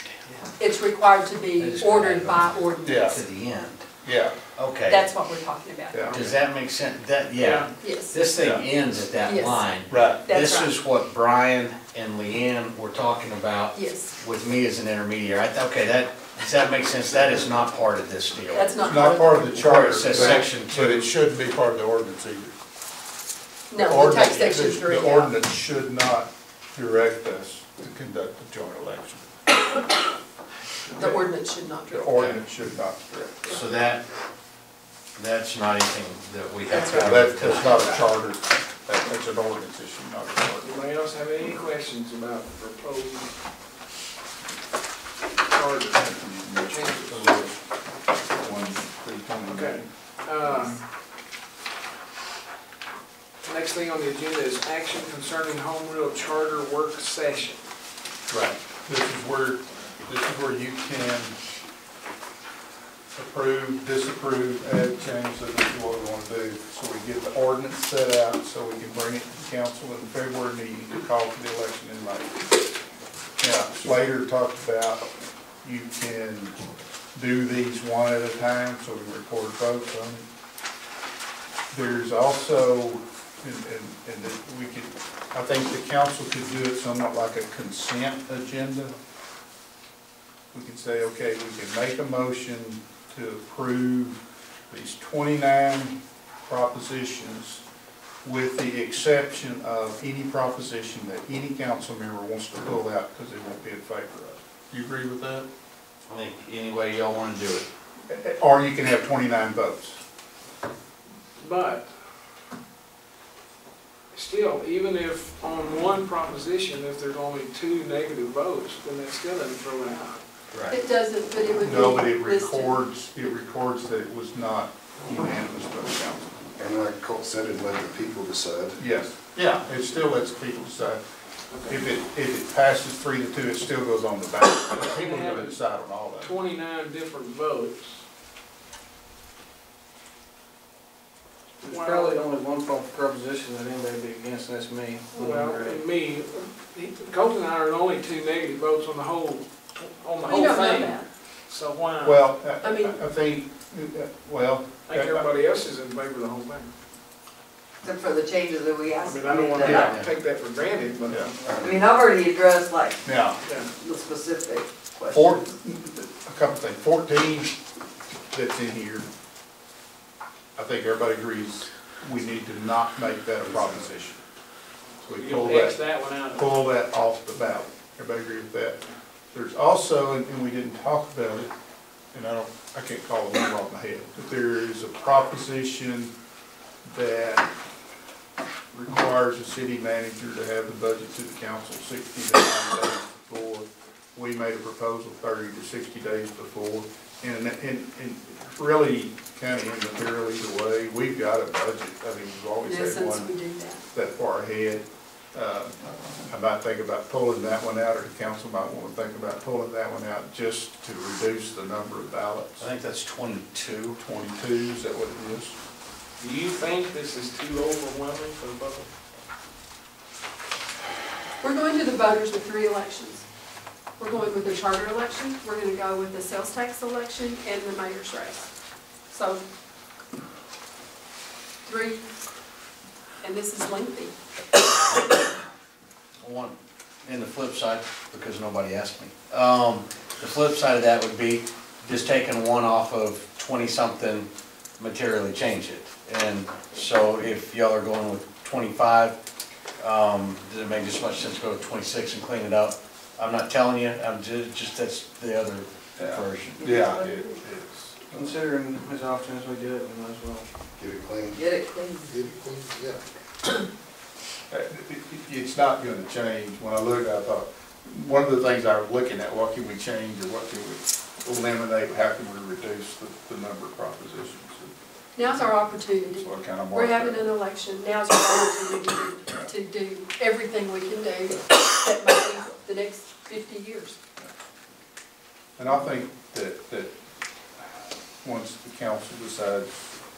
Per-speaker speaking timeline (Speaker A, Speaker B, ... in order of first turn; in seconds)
Speaker A: 0.6-3.2, 4.9-6.2, 7.8-8.2, 9.2-9.7, 10.2-10.7, 13.7-14.1, 18.5-19.6, 20.1-20.4, 23.7-25.3, 31.0-32.3, 120.7-123.3, 150.2-151.1, 152.6-153.0, 202.6-203.8, 221.4-223.2, 224.0-228.5, 229.1-229.4, 231.6-232.0, 233.2-234.1, 275.1-284.0
Speaker B: 1.6-2.5, 3.1-3.9, 4.5-5.1, 6.1-21.1, 33.5-34.0, 35.1-38.0, 106.1-107.7, 120.5-120.8, 212.6-214.0, 236.2-249.2, 249.8-256.6
Speaker C: 2.8-3.2, 4.0-4.3, 5.9-6.3, 8.4-8.7, 9.9-10.3, 18.8-22.5, 23.8-29.3, 31.9-33.6, 36.9-40.7, 46.0-47.6, 48.3-49.8, 58.3-61.4, 63.1-72.3, 73.4-75.1, 75.6-76.6, 77.1-80.2, 81.7-88.9, 90.5-97.6, 98.2-105.5, 108.1-110.0, 121.6-126.3, 128.8-131.0, 131.7-136.3, 152.0-155.2, 159.6-159.9, 163.0-163.4, 165.1-167.6, 168.3-169.1, 170.6-174.2, 175.0-178.8, 179.3-181.5, 182.1-186.1, 186.8-187.5, 188.7-203.3, 203.9-212.6, 214.0-215.5, 256.0-258.4, 264.5-274.7, 276.1-277.2, 285.6-286.9, 288.2-289.7
Speaker D: 40.6-43.3, 45.5-47.4, 49.5-50.8, 53.4-57.6, 111.4-111.9, 114.1-120.2, 131.5-131.8, 134.9-135.6, 136.2-138.0, 141.6-142.3, 145.1-152.2, 154.9-156.7, 159.0-161.6, 175.2-176.4, 216.2-218.9
Speaker E: 126.6-128.8, 161.4-161.8, 173.4-173.8, 260.8-261.4, 262.0-263.0
Speaker F: 141.6-145.8, 258.1-260.5
Speaker G: 157.8-159.9, 161.5-163.0, 163.8-165.4, 256.6-257.3, 261.3-262.2